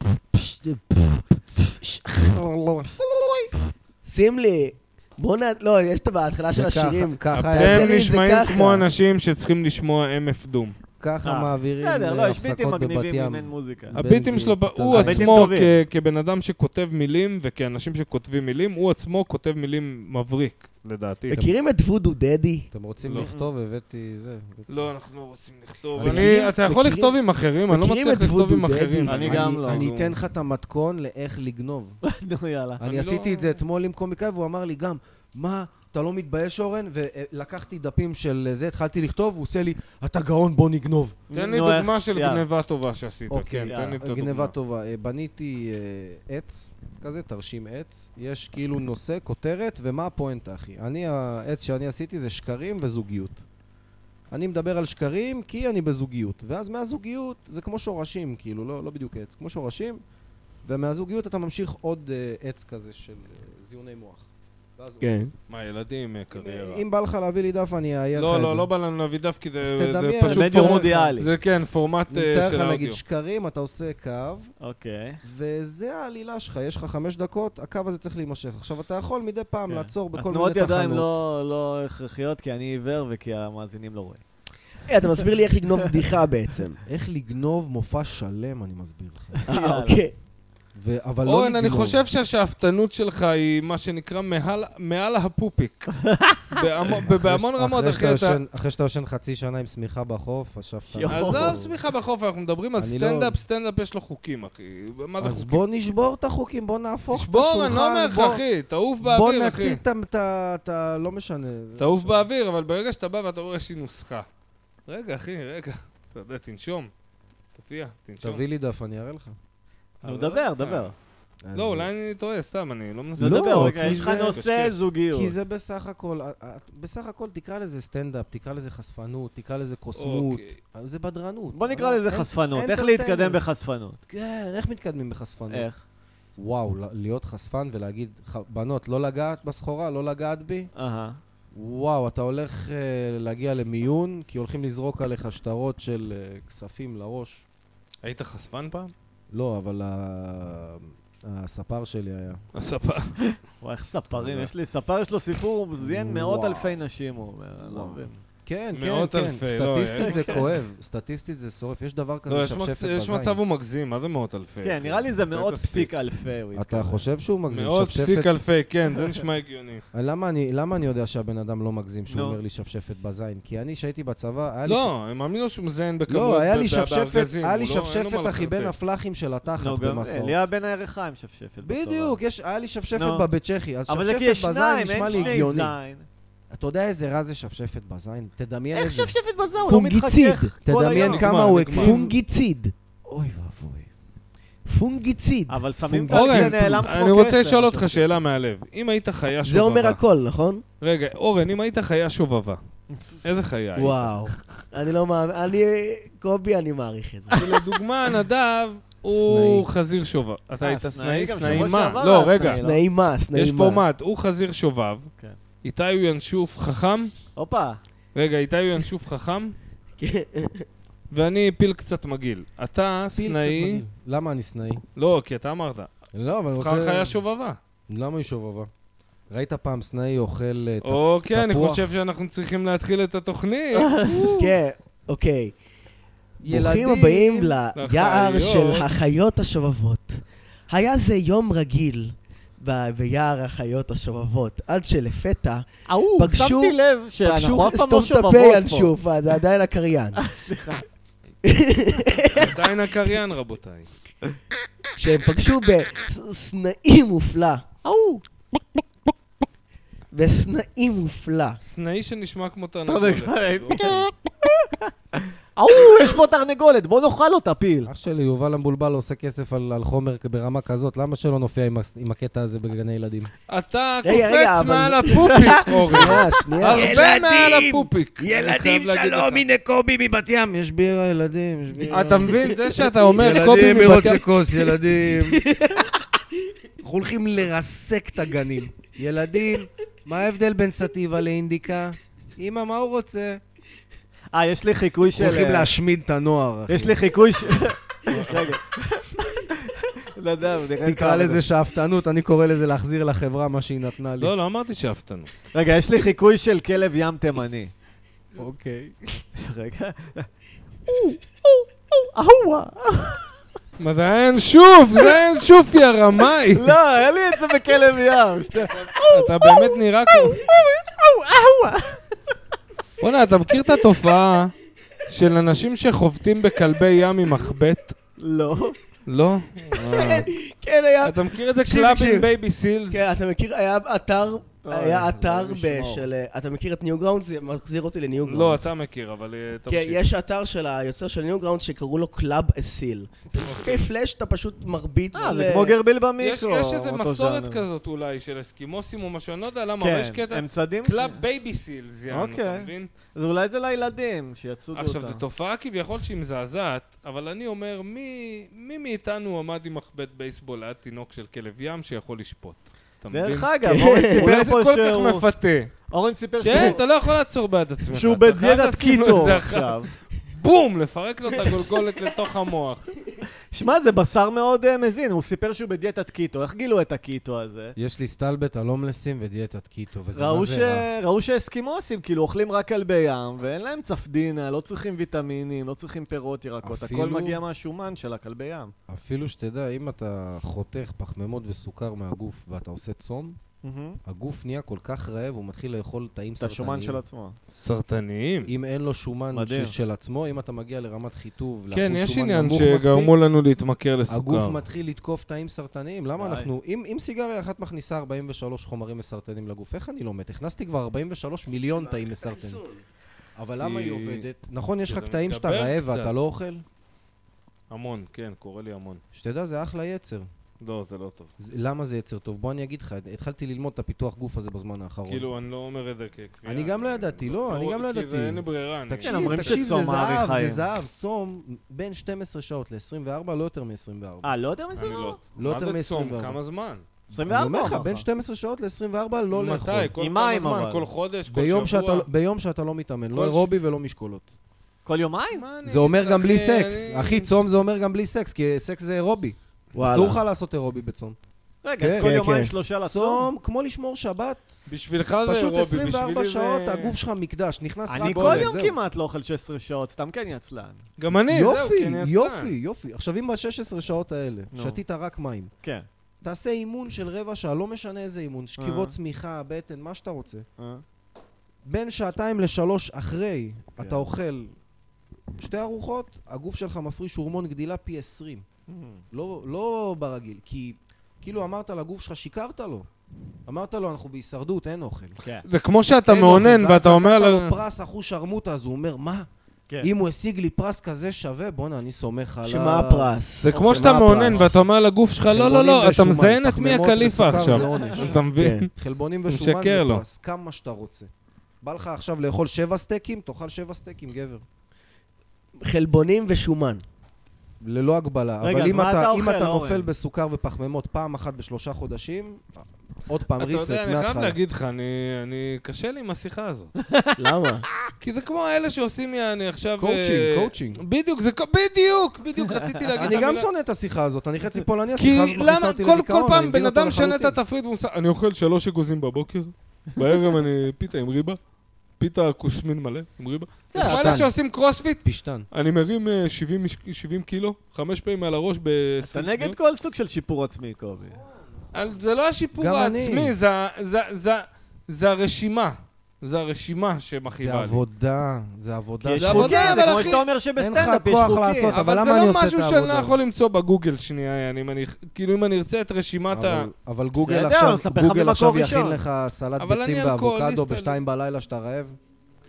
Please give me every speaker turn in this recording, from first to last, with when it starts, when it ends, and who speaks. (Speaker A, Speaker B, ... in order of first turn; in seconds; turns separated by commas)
Speaker A: 0.3-3.5, Speaker B: 4.0-8.8, Speaker A: 6.5-8.1, Speaker C: 7.3-10.8, Speaker A: 11.0-15.6, Speaker D: 11.2-14.0, Speaker C: 13.9-21.4, Speaker D: 14.9-15.8, Speaker B: 21.3-22.7, Speaker A: 22.7-24.9, Speaker C: 23.0-23.3, Speaker D: 23.1-23.5, Speaker C: 24.7-30.1, Speaker A: 26.0-26.3, Speaker B: 26.0-27.2, Speaker B: 27.7-29.6, Speaker D: 29.1-30.0, Speaker A: 29.2-32.0, Speaker D: 32.0-32.8, Speaker A: 32.8-41.2, Speaker C: 32.8-33.6, Speaker D: 41.3-42.5, Speaker C: 41.3-44.5, Speaker A: 43.3-53.5, Speaker D: 43.6-44.0, Speaker A: 54.3-60.0, Speaker A: 60.6-65.1, Speaker B: 65.0-65.3, Speaker C: 65.5-66.8, Speaker A: 66.3-68.7, Speaker C: 68.2-73.0, Speaker A: 69.6-71.2, Speaker D: 70.2-71.3, Speaker A: 72.1-74.5, Speaker D: 74.6-75.2, Speaker A: 75.2-81.2, Speaker D: 79.7-84.2, Speaker B: 84.9-86.8, Speaker A: 86.8-89.4, Speaker D: 89.4-90.0, Speaker B: 89.5-90.1, Speaker A: 90.8-92.1, Speaker C: 91.3-98.4, Speaker D: 96.1-96.6, Speaker A: 97.0-101.7, Speaker D: 100.9-101.6, Speaker C: 101.1-105.6, Speaker A: 102.8-103.4, Speaker A: 105.2-108.4, Speaker C: 107.1-109.8, Speaker A: 109.0-112.2, Speaker C: 111.8-114.3, Speaker C: 114.9-116.9, Speaker C: 117.5-118.4, Speaker A: 118.2-119.3, Speaker C: 120.0-120.9, Speaker D: 120.0-120.9, Speaker A: 121.5-121.9, Speaker C: 121.5-124.8, Speaker D: 123.2-125.3, Speaker A: 123.2-124.4, Speaker A: 125.1-133.4, Speaker C: 130.0-130.6, Speaker D: 131.5-134.0, Speaker A: 134.1-135.7, Speaker D: 135.5-135.8, Speaker A: 136.4-140.7, Speaker D: 140.8-141.2, Speaker A: 141.6-147.4, Speaker C: 148.0-148.9, Speaker A: 149.3-152.4, Speaker C: 152.5-153.2, Speaker D: 153.6-158.1, Speaker A: 154.1-154.5, Speaker A: 155.8-156.8, Speaker A: 157.6-163.4, Speaker C: 158.7-160.5, Speaker D: 160.0-160.4, Speaker C: 162.3-165.9, Speaker D: 164.6-167.0, Speaker A: 166.5-168.3, Speaker C: 167.5-169.8, Speaker A: 169.9-174.9, Speaker D: 172.1-172.4, Speaker C: 174.7-178.8, Speaker A: 176.1-180.4, Speaker D: 179.6-182.2, Speaker A: 181.6-185.8, Speaker D: 182.9-183.3, Speaker D: 183.9-186.1, Speaker C: 185.0-185.4, Speaker A: 186.5-189.2, Speaker D: 188.7-191.3, Speaker B: 189.7-190.5, Speaker A: 190.7-192.2, Speaker C: 190.9-192.1, Speaker B: 191.7-192.7, Speaker A: 193.1-193.9, Speaker B: 194.7-195.6, Speaker D: 195.5-198.1, Speaker A: 195.9-197.0, Speaker C: 196.1-200.0, Speaker B: 199.4-200.6, Speaker C: 200.8-202.6, Speaker D: 202.9-204.0, Speaker C: 203.2-204.0, Speaker B: 203.8-207.5, Speaker A: 203.8-204.1, Speaker C: 207.3-212.6, Speaker A: 209.1-209.7, Speaker D: 210.6-212.8, Speaker B: 212.4-213.8, Speaker C: 213.3-215.1, Speaker C: 215.6-217.1, Speaker D: 217.4-217.8, Speaker C: 218.2-219.6, Speaker B: 220.0-220.7, Speaker C: 221.1-223.8, Speaker A: 223.2-224.8, Speaker C: 225.0-225.9, Speaker A: 226.1-227.2, Speaker C: 226.6-227.6, Speaker A: 227.9-228.7, Speaker A: 229.3-231.9, Speaker C: 230.8-233.9, Speaker D: 233.7-234.3, Speaker A: 233.8-234.6, Speaker B: 234.4-235.5, Speaker A: 236.4-237.6, Speaker B: 236.4-245.7, Speaker C: 237.8-238.9, Speaker D: 245.9-248.9, Speaker B: 246.2-250.2, Speaker D: 250.2-250.8, Speaker B: 251.4-252.6, Speaker C: 252.3-253.9, Speaker B: 255.0-257.6, Speaker D: 257.8-258.2, Speaker B: 260.1-261.6, Speaker C: 261.6-264.1, Speaker D: 262.9-264.9, Speaker D: 265.6-267.9, Speaker A: 267.9-273.3, Speaker C: 273.5-279.4, Speaker B: 274.0-277.1, Speaker A: 275.9-285.4, Speaker C: 281.9-284.3, Speaker B: 285.0-286.0, Speaker A: 286.8-293.4, Speaker D: 294.3-295.7, Speaker A: 295.1-297.0, Speaker D: 296.7-301.4, Speaker C: 298.1-298.5, Speaker A: 300.8-304.3, Speaker C: 304.2-305.3, Speaker D: 305.5-307.7, Speaker A: 308.4-309.2, Speaker D: 309.4-310.3, Speaker D: 310.9-313.2, Speaker C: 313.8-316.8, Speaker D: 316.5-322.0, Speaker C: 319.0-320.4, Speaker C: 323.0-324.5, Speaker C: 325.1-328.0, Speaker D: 328.2-328.8, Speaker C: 329.1-330.2, Speaker B: 329.8-332.3, Speaker C: 331.0-333.1, Speaker B: 332.9-338.7, Speaker D: 334.6-336.1, Speaker C: 338.2-340.0, Speaker B: 339.7-345.8, Speaker C: 343.4-343.9, Speaker D: 345.1-347.6, Speaker C: 346.2-352.9, Speaker D: 349.8-351.2, Speaker D: 352.1-355.2, Speaker C: 354.8-365.7, Speaker D: 363.1-365.2, Speaker B: 363.6-364.3, Speaker D: 365.9-366.8, Speaker C: 366.4-372.9, Speaker D: 367.9-369.9, Speaker D: 373.5-377.8, Speaker A: 377.8-380.9, Speaker D: 380.1-388.7, Speaker A: 386.6-387.4, Speaker A: 388.9-393.4, Speaker D: 393.6-394.0, Speaker A: 394.1-397.0, Speaker D: 396.4-397.4, Speaker C: 397.5-398.5, Speaker A: 398.4-403.1, Speaker D: 399.3-399.7, Speaker C: 401.7-404.6, Speaker A: 404.1-412.6, Speaker D: 406.2-406.5, Speaker B: 411.9-412.8, Speaker A: 413.4-416.6, Speaker C: 413.6-414.3, Speaker C: 414.9-416.2, Speaker C: 417.7-419.0, Speaker A: 419.1-420.3, Speaker C: 420.6-421.3, Speaker A: 421.4-425.3, Speaker C: 425.1-429.6, Speaker A: 426.5-434.3, Speaker D: 429.0-430.6, Speaker D: 434.2-435.2, Speaker C: 434.8-436.8, Speaker A: 435.4-436.4, Speaker D: 437.1-438.0, Speaker A: 437.1-439.9, Speaker C: 439.3-442.1, Speaker D: 440.0-440.9, Speaker A: 441.3-444.3, Speaker C: 443.1-443.5, Speaker D: 444.9-445.5, Speaker C: 445.3-447.3, Speaker A: 445.6-451.2, Speaker B: 449.7-450.2, Speaker D: 451.6-453.3, Speaker A: 451.8-452.2, Speaker B: 452.0-452.5, Speaker A: 452.9-454.5, Speaker C: 454.7-457.0, Speaker A: 455.2-458.8, Speaker D: 457.9-460.8, Speaker C: 458.0-458.5, Speaker C: 461.0-462.6, Speaker A: 461.3-465.5, Speaker D: 464.5-464.8, Speaker A: 466.2-470.5, Speaker D: 468.6-468.9, Speaker D: 470.6-470.8, Speaker A: 471.7-474.5, Speaker A: 475.4-478.5, Speaker D: 478.7-479.0, Speaker A: 479.1-482.9, Speaker A: 483.5-485.2, Speaker C: 485.4-487.6, Speaker A: 486.1-489.3, Speaker A: 489.8-494.6, Speaker B: 492.4-494.5, Speaker C: 493.4-498.7, Speaker D: 493.5-493.8, Speaker A: 495.2-501.1, Speaker D: 497.3-498.2, Speaker B: 498.4-498.7, Speaker C: 499.3-500.0, Speaker A: 501.6-504.4, Speaker B: 505.6-506.8, Speaker A: 507.6-514.4, Speaker D: 508.4-509.9, Speaker C: 513.4-516.7, Speaker D: 516.9-517.2, Speaker B: 517.2-517.6, Speaker C: 518.0-523.5, Speaker A: 519.8-520.8, Speaker D: 522.6-523.2, Speaker A: 523.0-527.4, Speaker C: 525.0-531.4, Speaker C: 532.0-539.6, Speaker D: 533.7-534.2, Speaker A: 533.8-534.4, Speaker A: 535.0-535.5, Speaker D: 539.0-541.2, Speaker C: 541.7-547.8, Speaker A: 542.6-543.4, Speaker A: 547.3-553.2, Speaker D: 549.0-551.7, Speaker C: 549.2-550.3, Speaker C: 551.7-556.7, Speaker A: 556.3-562.0, Speaker D: 557.2-559.0, Speaker C: 559.6-561.0